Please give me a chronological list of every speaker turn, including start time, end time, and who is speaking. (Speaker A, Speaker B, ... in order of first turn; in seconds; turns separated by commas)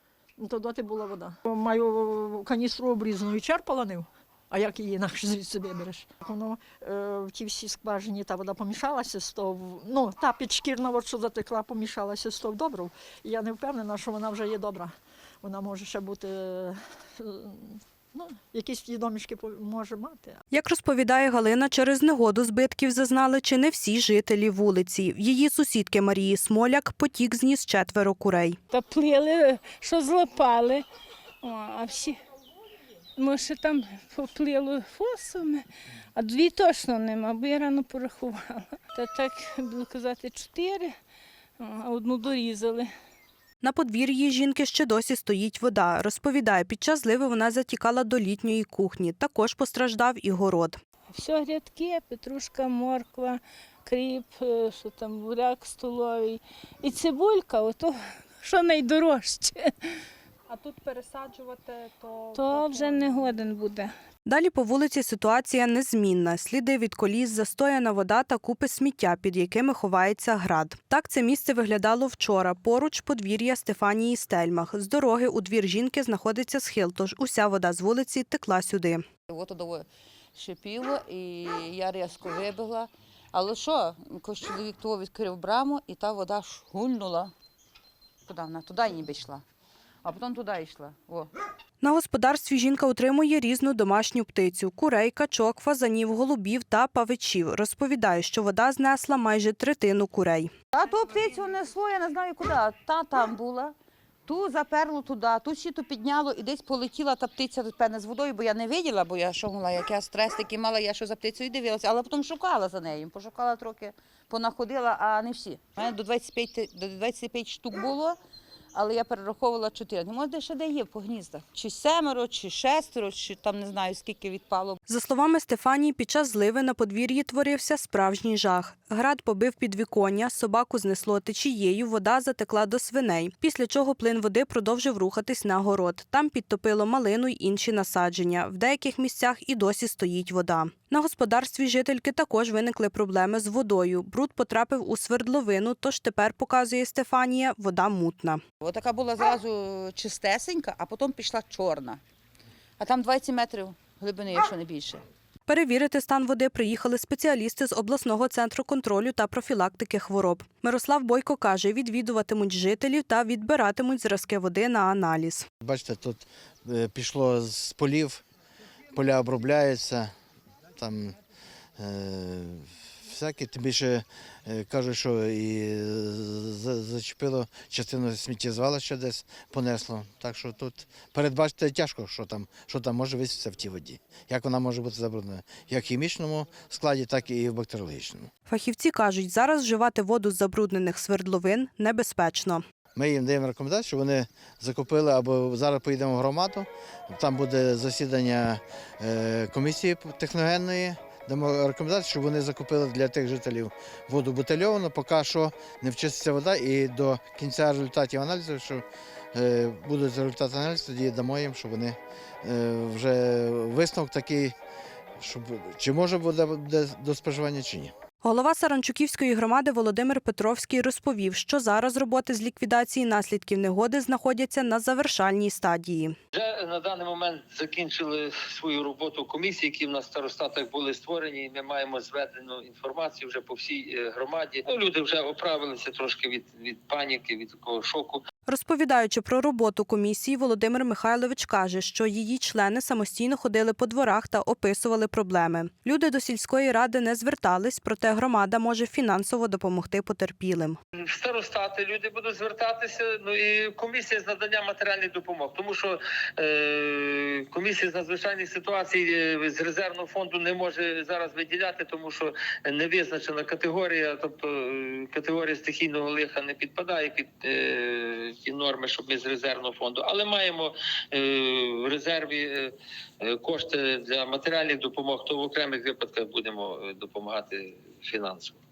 Speaker A: 0.4-20.4, Speaker B: 20.5-28.6, Speaker C: 28.7-30.8, Speaker C: 31.4-32.2, Speaker C: 33.2-40.9, Speaker C: 41.6-42.9, Speaker B: 43.6-50.8, Speaker C: 51.1-59.7, Speaker C: 60.5-63.9, Speaker B: 64.3-79.0, Speaker D: 79.3-87.3, Speaker D: 88.3-89.4, Speaker D: 90.0-91.3, Speaker B: 91.8-100.5, Speaker D: 100.7-103.7, Speaker D: 104.3-118.2, Speaker D: 118.7-124.8, Speaker B: 124.9-148.4, Speaker D: 148.6-152.0, Speaker D: 152.8-155.1, Speaker B: 155.5-165.5, Speaker E: 165.6-168.2, Speaker E: 168.9-170.1, Speaker E: 170.8-171.2, Speaker E: 171.8-188.3, Speaker B: 188.5-192.6, Speaker E: 192.9-214.6, Speaker E: 215.2-217.9, Speaker B: 218.2-226.2, Speaker F: 226.3-238.2, Speaker B: 238.5-250.8, Speaker F: 251.0-278.6